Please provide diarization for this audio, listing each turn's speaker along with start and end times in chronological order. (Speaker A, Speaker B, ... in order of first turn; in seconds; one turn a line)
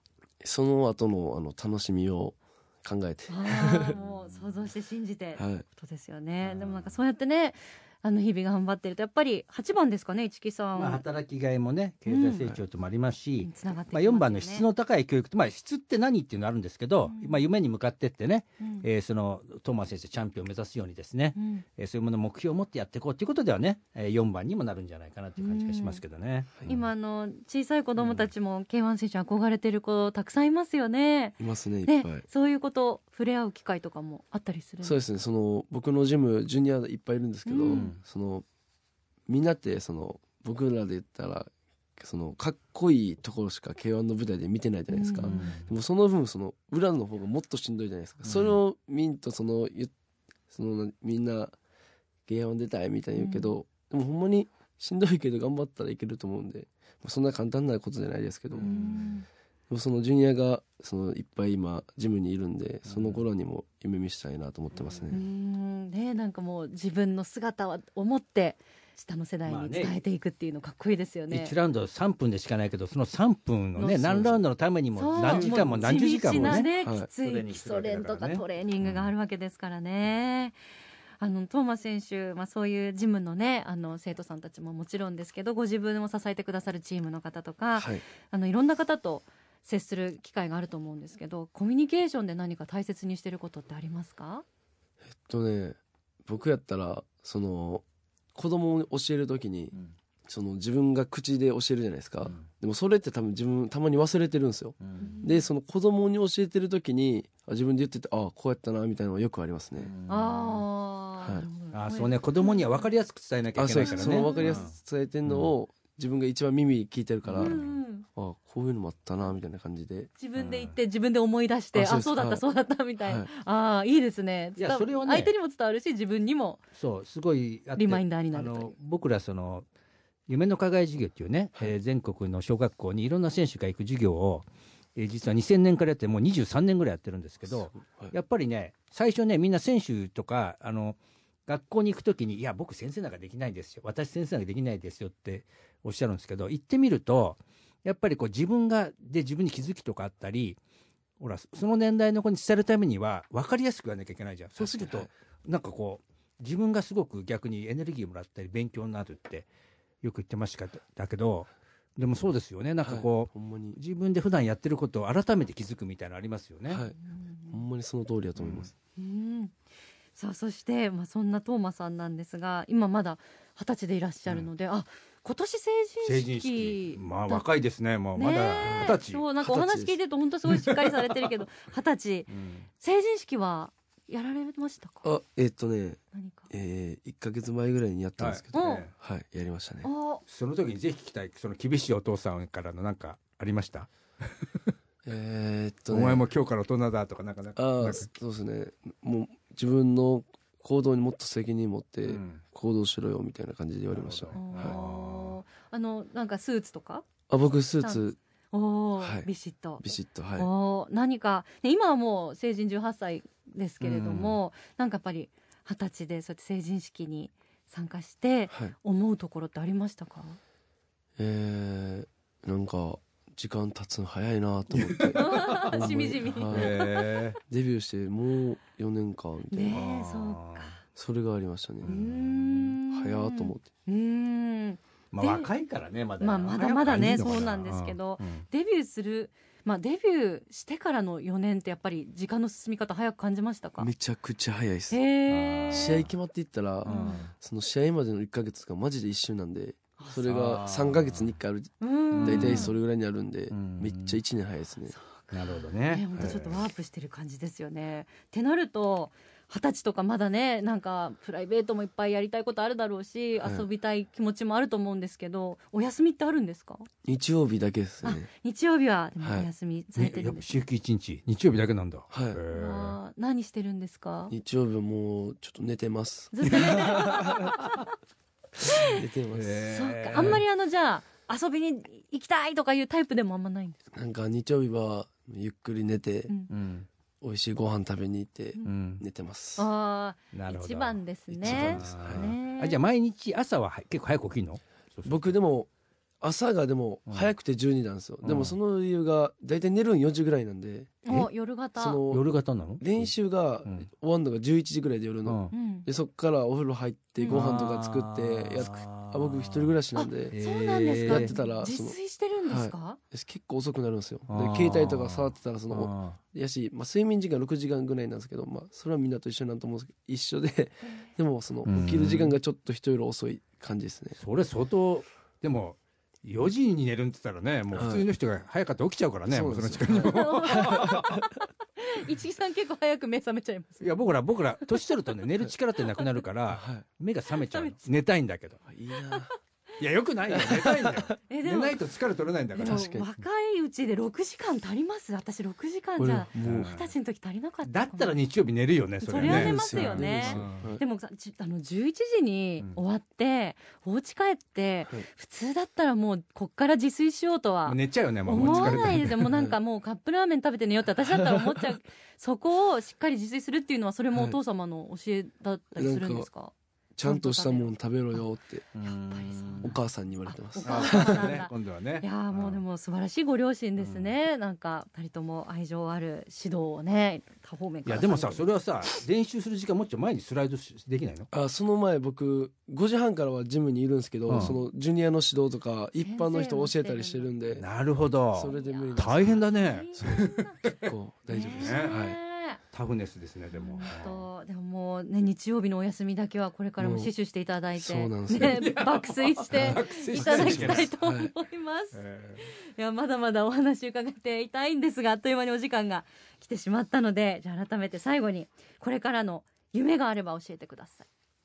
Speaker A: 0.4-4.0
Speaker B: 3.3-11.0
Speaker C: 4.0-4.5
Speaker A: 5.4-5.7
Speaker C: 6.4-7.0
Speaker C: 10.8-26.9
Speaker B: 12.1-12.5
Speaker B: 13.4-14.7
Speaker B: 17.1-17.4
Speaker B: 18.6-18.9
Speaker B: 21.4-21.6
Speaker B: 25.4-26.0
Speaker B: 26.6-35.0
Speaker C: 28.0-28.3
Speaker A: 31.4-32.3
Speaker A: 34.8-38.5
Speaker B: 37.5-37.9
Speaker C: 37.6-38.0
Speaker A: 39.3-49.9
Speaker B: 44.9-45.5
Speaker C: 45.2-45.7
Speaker C: 48.2-48.6
Speaker A: 50.5-51.6
Speaker A: 52.3-58.7
Speaker B: 53.1-53.5
Speaker C: 58.5-59.1
Speaker B: 58.6-59.3
Speaker A: 59.7-65.2
Speaker C: 62.9-63.2
Speaker C: 64.7-65.1
Speaker B: 65.1-71.5
Speaker C: 69.5-70.0
Speaker C: 71.3-79.1
Speaker B: 73.8-74.3
Speaker A: 74.0-74.4
Speaker B: 75.0-80.6
Speaker A: 75.2-77.1
Speaker B: 81.2-94.5
Speaker A: 87.8-88.0
Speaker A: 95.2-97.8
Speaker A: 98.3-99.7
Speaker A: 100.3-109.9
Speaker C: 104.8-105.1
Speaker B: 105.0-105.4
Speaker C: 109.8-110.7
Speaker B: 110.1-112.9
Speaker C: 111.7-114.7
Speaker A: 113.6-120.1
Speaker B: 113.8-114.6
Speaker C: 115.3-115.5
Speaker C: 117.2-117.8
Speaker B: 117.4-118.0
Speaker B: 120.2-126.6
Speaker C: 120.4-120.8
Speaker A: 121.7-122.4
Speaker A: 123.0-123.3
Speaker C: 124.6-125.3
Speaker C: 126.8-129.7
Speaker B: 127.8-128.8
Speaker C: 130.3-150.6
Speaker A: 137.5-138.2
Speaker C: 151.2-159.5
Speaker A: 154.6-155.1
Speaker C: 160.0-166.8
Speaker A: 162.8-163.8
Speaker A: 166.7-167.0
Speaker B: 167.0-167.6
Speaker A: 167.5-168.7
Speaker C: 168.4-168.7
Speaker B: 169.0-169.6
Speaker B: 170.2-177.4
Speaker C: 176.0-179.2
Speaker B: 178.2-185.1
Speaker A: 178.6-180.0
Speaker C: 180.5-180.9
Speaker C: 182.3-182.7
Speaker A: 185.0-189.9
Speaker B: 186.1-186.5
Speaker C: 188.2-188.9
Speaker B: 188.5-188.8
Speaker B: 189.8-190.2
Speaker C: 190.3-194.7
Speaker A: 195.1-196.2
Speaker C: 195.9-198.1
Speaker A: 197.6-204.8
Speaker C: 202.1-202.4
Speaker C: 203.9-205.4
Speaker B: 204.3-207.1
Speaker A: 207.3-208.2
Speaker B: 207.8-220.4
Speaker A: 209.0-209.3
Speaker A: 209.8-210.5
Speaker C: 213.8-214.4
Speaker A: 221.2-226.8
Speaker C: 224.7-225.9
Speaker B: 225.2-227.1
Speaker C: 226.5-227.4
Speaker A: 227.5-229.9
Speaker B: 229.5-230.8
Speaker C: 229.7-230.7
Speaker A: 230.9-231.9
Speaker C: 231.8-232.8
Speaker B: 231.8-235.5
Speaker A: 232.9-233.7
Speaker C: 235.1-238.4
Speaker B: 236.2-243.9
Speaker A: 236.9-237.3
Speaker A: 243.8-245.0
Speaker B: 244.9-246.0
Speaker C: 245.3-246.1
Speaker A: 245.7-254.9
Speaker B: 246.8-247.3
Speaker C: 246.8-247.3
Speaker C: 250.2-251.3
Speaker B: 251.8-252.7
Speaker C: 252.1-252.7
Speaker C: 253.5-254.2
Speaker B: 254.9-266.9
Speaker C: 255.3-256.7
Speaker A: 263.4-263.7
Speaker A: 267.1-268.3
Speaker B: 268.0-270.5
Speaker A: 269.2-269.5
Speaker C: 270.0-273.0
Speaker A: 272.1-272.4
Speaker B: 272.5-274.3
Speaker A: 274.3-277.5
Speaker B: 276.3-277.9
Speaker C: 276.5-277.6
Speaker B: 278.6-279.0
Speaker A: 278.8-280.4
Speaker C: 279.3-280.4
Speaker B: 279.7-283.8
Speaker A: 283.9-286.3
Speaker C: 286.5-286.9
Speaker A: 287.2-289.7
Speaker C: 288.6-289.0
Speaker B: 289.6-292.8
Speaker C: 290.3-295.3
Speaker A: 291.3-292.3
Speaker A: 295.1-295.7
Speaker A: 296.2-301.0
Speaker C: 298.2-298.6
Speaker B: 301.1-302.0
Speaker A: 301.8-302.3
Speaker C: 302.1-303.1
Speaker A: 302.8-310.4
Speaker C: 305.3-305.5
Speaker B: 305.5-305.9
Speaker B: 307.2-307.5
Speaker C: 307.3-309.7
Speaker B: 310.0-313.0
Speaker C: 310.3-311.3
Speaker A: 311.0-324.2
Speaker C: 314.3-316.2
Speaker B: 320.9-321.1
Speaker C: 321.6-322.4
Speaker C: 324.2-331.2
Speaker A: 327.7-328.1
Speaker A: 329.3-331.2
Speaker B: 330.0-334.0
Speaker C: 333.8-338.6
Speaker A: 336.5-336.9
Speaker B: 337.3-337.9
Speaker A: 338.7-339.3
Speaker B: 339.1-339.3
Speaker C: 339.8-343.0
Speaker A: 340.3-341.1
Speaker B: 341.3-341.8
Speaker B: 342.6-348.2
Speaker A: 342.6-343.1
Speaker A: 346.0-346.7
Speaker C: 346.4-346.9
Speaker C: 347.6-350.7
Speaker B: 349.0-366.5
Speaker A: 349.2-350.8
Speaker C: 357.7-359.3
Speaker A: 358.4-359.6
Speaker A: 361.0-361.6
Speaker A: 364.1-364.4
Speaker A: 365.8-366.3
Speaker A: 367.0-368.7
Speaker B: 367.0-368.2
Speaker C: 368.8-369.8
Speaker B: 369.1-378.4
Speaker A: 369.6-371.4
Speaker C: 370.6-372.6
Speaker C: 373.8-374.1
Speaker C: 377.9-381.3
Speaker A: 381.3-387.7
Speaker C: 384.3-384.6
Speaker B: 386.0-387.3
Speaker C: 387.6-391.9
Speaker A: 388.3-392.2
Speaker B: 388.4-390.8
Speaker B: 391.3-392.6
Speaker C: 392.7-394.3
Speaker B: 393.5-411.1
Speaker A: 396.8-397.1
Speaker A: 397.8-398.7
Speaker C: 398.4-400.9
Speaker A: 399.5-401.3
Speaker C: 401.9-402.4